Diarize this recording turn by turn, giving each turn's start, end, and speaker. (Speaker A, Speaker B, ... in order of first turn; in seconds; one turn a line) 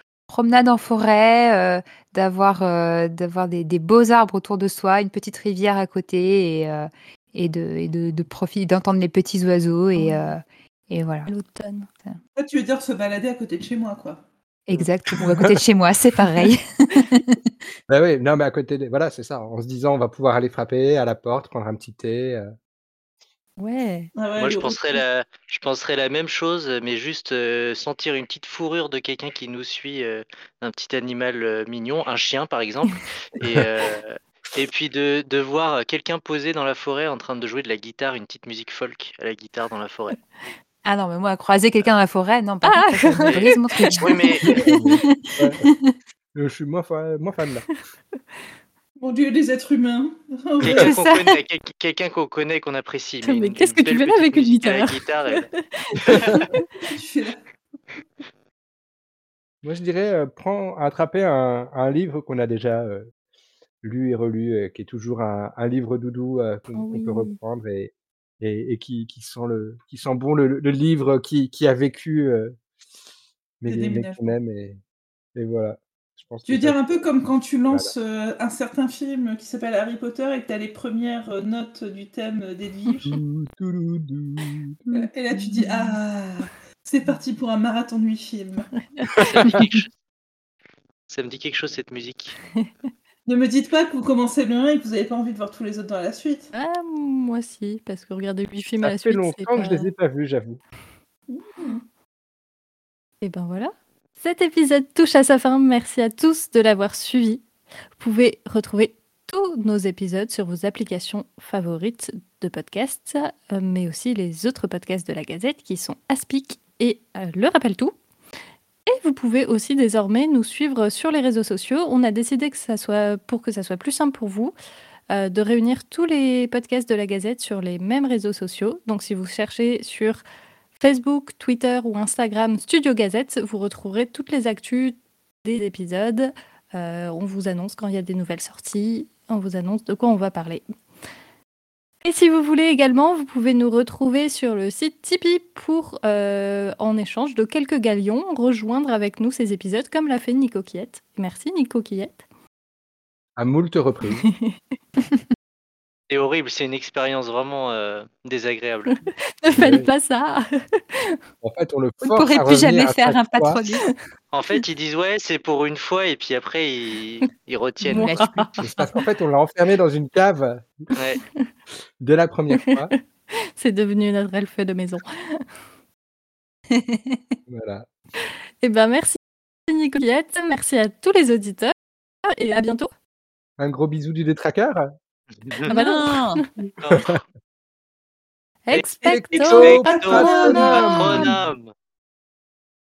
Speaker A: 0.3-11.3
Speaker B: 9.9-10.3
Speaker B: 11.2-11.9
Speaker C: 12.3-14.2
Speaker A: 14.7-17.5
Speaker D: 15.2-15.6
Speaker D: 17.9-22.5
Speaker A: 23.6-24.1
Speaker C: 24.1-25.0
Speaker E: 24.4-40.2
Speaker A: 40.8-45.9
Speaker B: 42.6-44.5
Speaker E: 43.2-44.5
Speaker D: 44.6-45.6
Speaker D: 46.3-47.7
Speaker C: 49.0-50.9
Speaker E: 50.6-55.5
Speaker A: 50.7-51.4
Speaker B: 53.2-56.0
Speaker D: 56.0-56.4
Speaker E: 56.1-56.3
Speaker C: 56.3-57.4
Speaker D: 59.6-63.1
Speaker D: 63.8-72.5
Speaker B: 66.7-67.4
Speaker D: 73.6-74.8
Speaker C: 73.7-74.3
Speaker D: 75.3-77.0
Speaker C: 76.5-83.2
Speaker D: 83.0-84.8
Speaker C: 84.9-88.7
Speaker B: 88.9-89.8
Speaker D: 89.3-89.7
Speaker E: 89.4-89.8
Speaker E: 91.1-92.4
Speaker C: 93.2-96.5
Speaker B: 96.5-99.9
Speaker D: 98.8-100.6
Speaker C: 101.3-101.8
Speaker B: 103.2-107.5
Speaker B: 108.0-117.9
Speaker B: 118.9-124.5
Speaker B: 125.1-130.2
Speaker B: 130.8-140.6
Speaker B: 142.0-152.2
Speaker D: 153.4-154.3
Speaker E: 156.1-159.0
Speaker B: 159.1-161.2
Speaker D: 159.5-159.9
Speaker D: 161.4-163.6
Speaker A: 162.0-163.8
Speaker E: 164.3-168.4
Speaker B: 167.9-168.3
Speaker A: 167.9-168.8
Speaker D: 168.6-170.9
Speaker E: 170.9-171.2
Speaker D: 172.0-172.9
Speaker B: 173.6-175.4
Speaker A: 176.7-177.2
Speaker D: 177.5-177.8
Speaker B: 178.6-179.2
Speaker B: 179.7-181.7
Speaker B: 182.2-182.9
Speaker D: 183.6-184.9
Speaker E: 185.4-185.7
Speaker A: 185.7-186.4
Speaker B: 185.7-186.4
Speaker E: 186.8-187.2
Speaker A: 188.7-191.2
Speaker D: 189.0-191.3
Speaker C: 189.4-191.3
Speaker E: 189.5-191.7